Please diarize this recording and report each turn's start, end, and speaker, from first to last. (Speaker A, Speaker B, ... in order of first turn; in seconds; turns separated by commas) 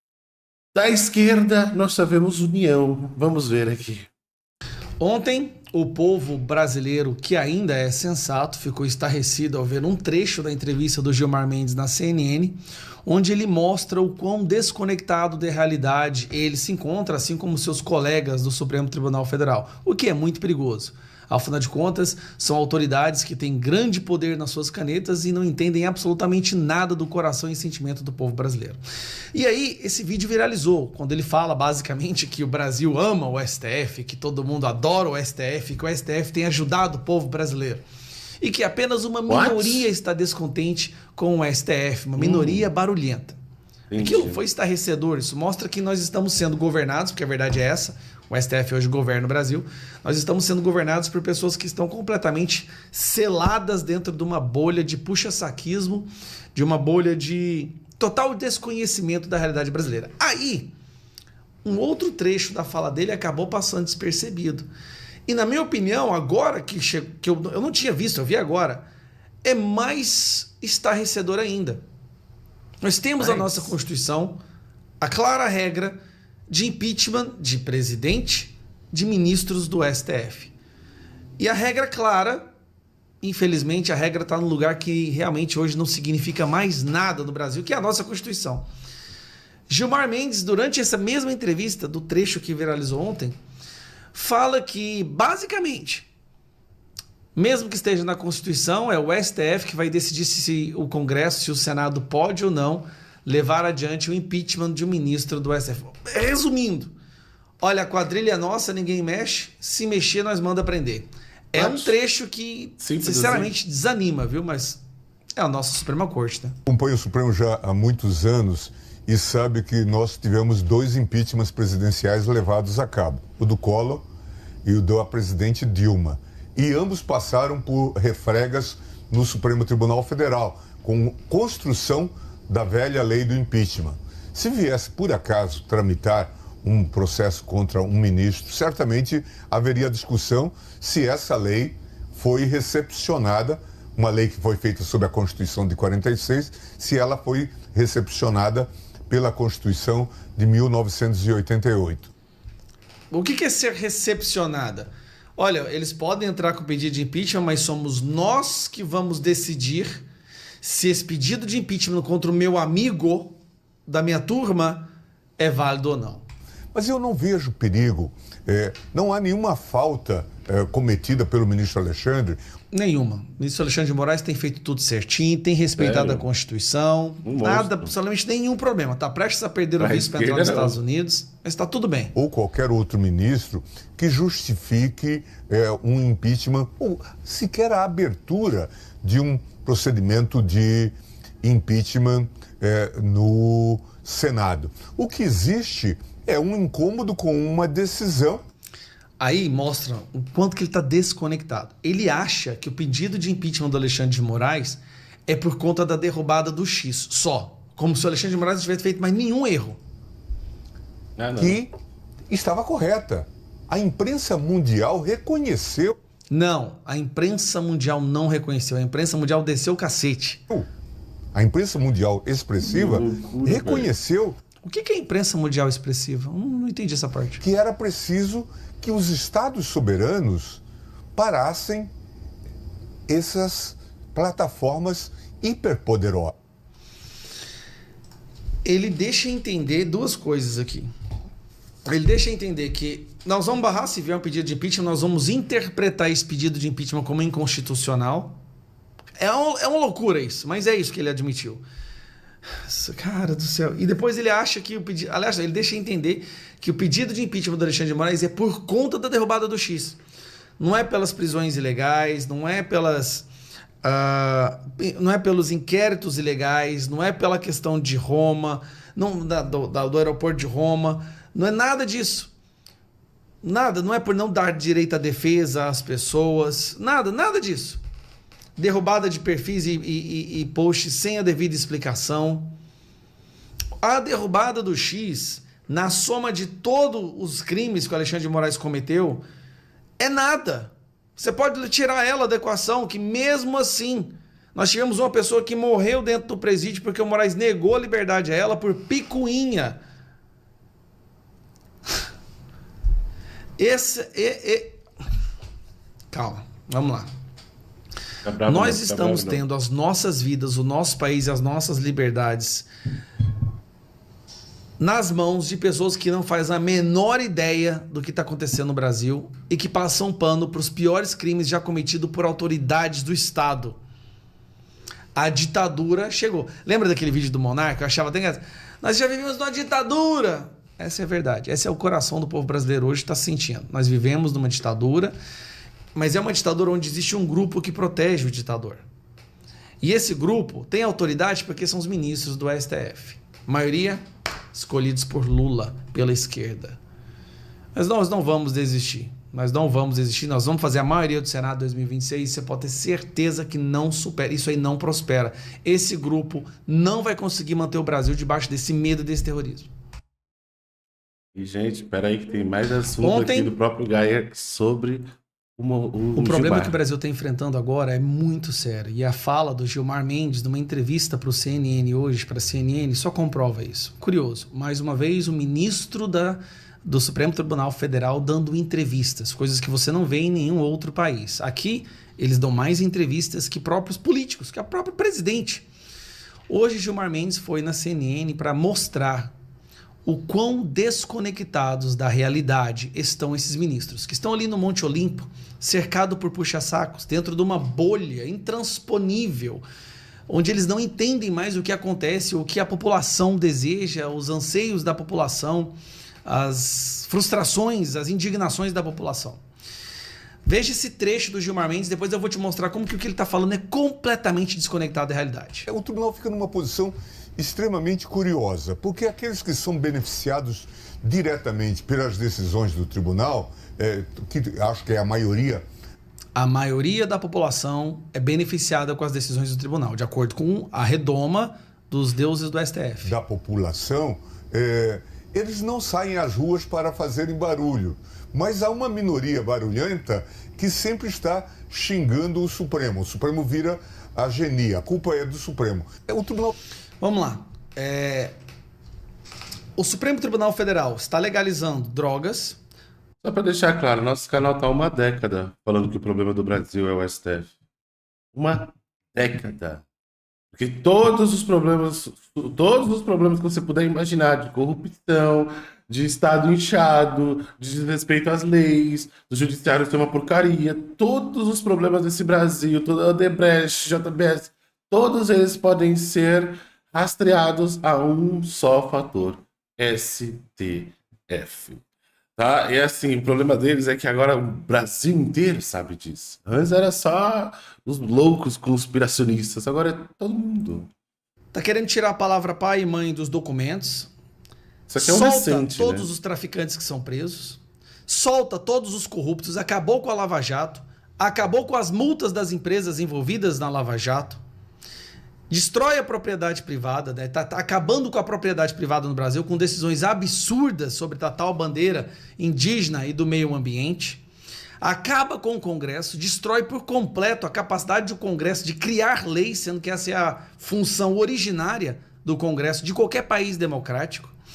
Speaker A: 0.7-4.1, Speaker B: 5.0-28.8, Speaker B: 29.3-37.8, Speaker B: 38.4-43.4, Speaker A: 39.3-39.9, Speaker A: 42.2-42.7, Speaker A: 43.9-44.4, Speaker B: 44.0-60.7, Speaker B: 61.6-64.7, Speaker B: 65.3-68.9, Speaker B: 69.4-71.8, Speaker B: 72.8-74.4, Speaker A: 73.2-73.7, Speaker B: 75.0-76.0, Speaker B: 76.5-80.5, Speaker B: 81.4-82.5, Speaker B: 83.2-88.7, Speaker B: 89.7-93.4, Speaker B: 94.1-96.1, Speaker B: 97.3-106.9, Speaker B: 107.6-114.8, Speaker A: 111.6-111.9, Speaker A: 112.8-113.5, Speaker B: 115.4-116.6, Speaker C: 116.7-124.1, Speaker C: 124.6-152.1, Speaker B: 153.1-160.1, Speaker B: 160.6-166.2, Speaker C: 166.7-172.4, Speaker B: 172.7-182.1, Speaker A: 175.8-176.2, Speaker A: 177.2-177.9, Speaker A: 179.8-180.8, Speaker C: 182.2-198.4, Speaker B: 199.2-209.8, Speaker A: 211.2-211.6, Speaker C: 211.4-211.7, Speaker C: 212.3-216.0, Speaker B: 216.3-220.4, Speaker C: 221.3-224.4, Speaker A: 222.6-223.9, Speaker B: 224.6-227.4, Speaker C: 227.4-230.6, Speaker C: 231.2-231.9, Speaker C: 233.1-236.3, Speaker B: 238.7-240.9, Speaker B: 241.8-248.4, Speaker B: 249.2-251.6, Speaker B: 252.6-260.0, Speaker B: 260.6-263.3, Speaker B: 263.8-272.3, Speaker B: 273.4-277.8, Speaker B: 278.6-282.5, Speaker B: 283.8-289.2, Speaker B: 290.0-299.8, Speaker B: 303.6-304.8, Speaker B: 306.1-307.1, Speaker A: 308.2-309.4, Speaker B: 308.4-312.7, Speaker B: 314.8-323.8, Speaker B: 325.1-335.1, Speaker B: 335.9-338.9, Speaker B: 339.8-344.0, Speaker B: 344.5-346.8, Speaker B: 347.8-359.7, Speaker A: 361.3-366.8, Speaker B: 363.0-363.6, Speaker B: 366.1-385.7, Speaker B: 386.5-389.3, Speaker B: 390.1-399.6, Speaker B: 400.3-405.7, Speaker B: 406.2-409.4, Speaker B: 410.4-415.7, Speaker C: 415.7-425.6, Speaker B: 426.4-433.1, Speaker C: 433.0-446.6, Speaker B: 447.0-448.4, Speaker B: 449.8-452.6, Speaker A: 453.2-457.5, Speaker A: 458.3-459.9, Speaker A: 460.5-481.8, Speaker A: 482.4-490.9, Speaker B: 491.5-494.1, Speaker A: 494.9-496.1, Speaker B: 495.0-504.4, Speaker B: 505.5-514.2, Speaker B: 514.8-524.4